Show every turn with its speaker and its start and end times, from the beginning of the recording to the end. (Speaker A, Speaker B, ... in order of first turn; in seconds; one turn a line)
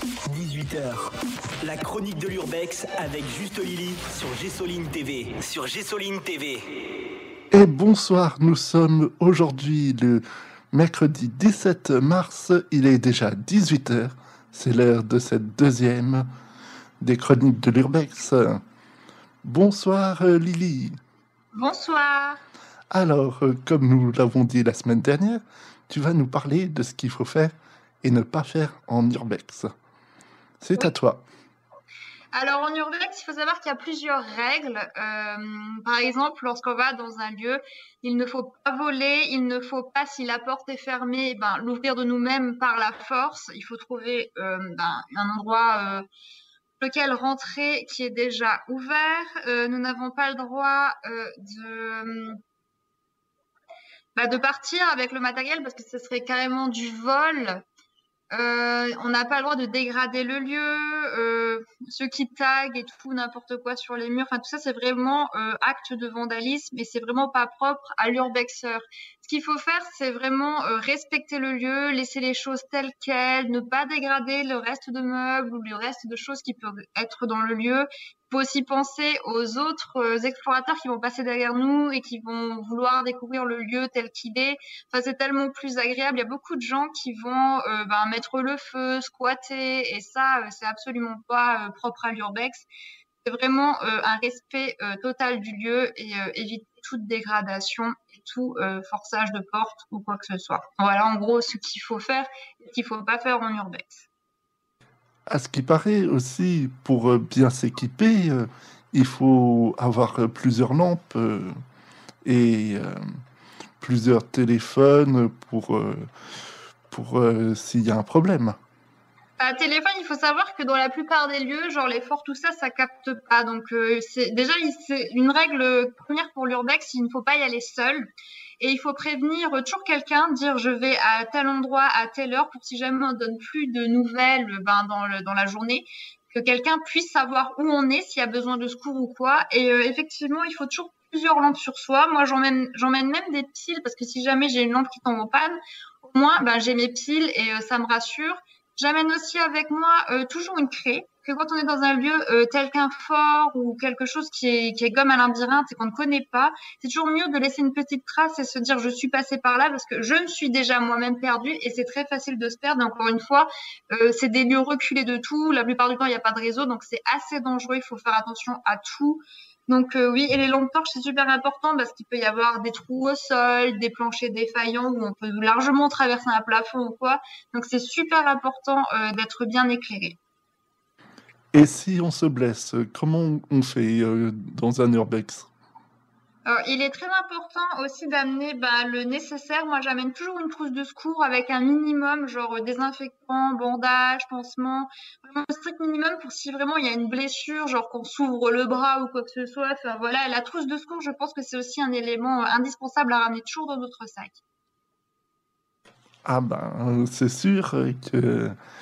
Speaker A: 0.2-1.1
Speaker A: 1.6-6.6
Speaker B: 7.5-16.2
Speaker B: 17.0-18.6
Speaker B: 19.4-21.0
Speaker C: 21.5-22.4
Speaker B: 22.9-29.7
Speaker B: 30.6-31.2
Speaker C: 32.3-46.0
Speaker C: 46.8-52.4
Speaker C: 54.1-57.6
Speaker C: 58.3-92.7
Speaker C: 93.2-104.0
Speaker B: 105.3-111.5
Speaker B: 112.2-113.0
Speaker B: 113.8-116.1
Speaker B: 116.9-118.5
Speaker C: 119.4-180.2
Speaker B: 181.5-185.5
Speaker C: 186.4-204.4
Speaker B: 206.2-208.6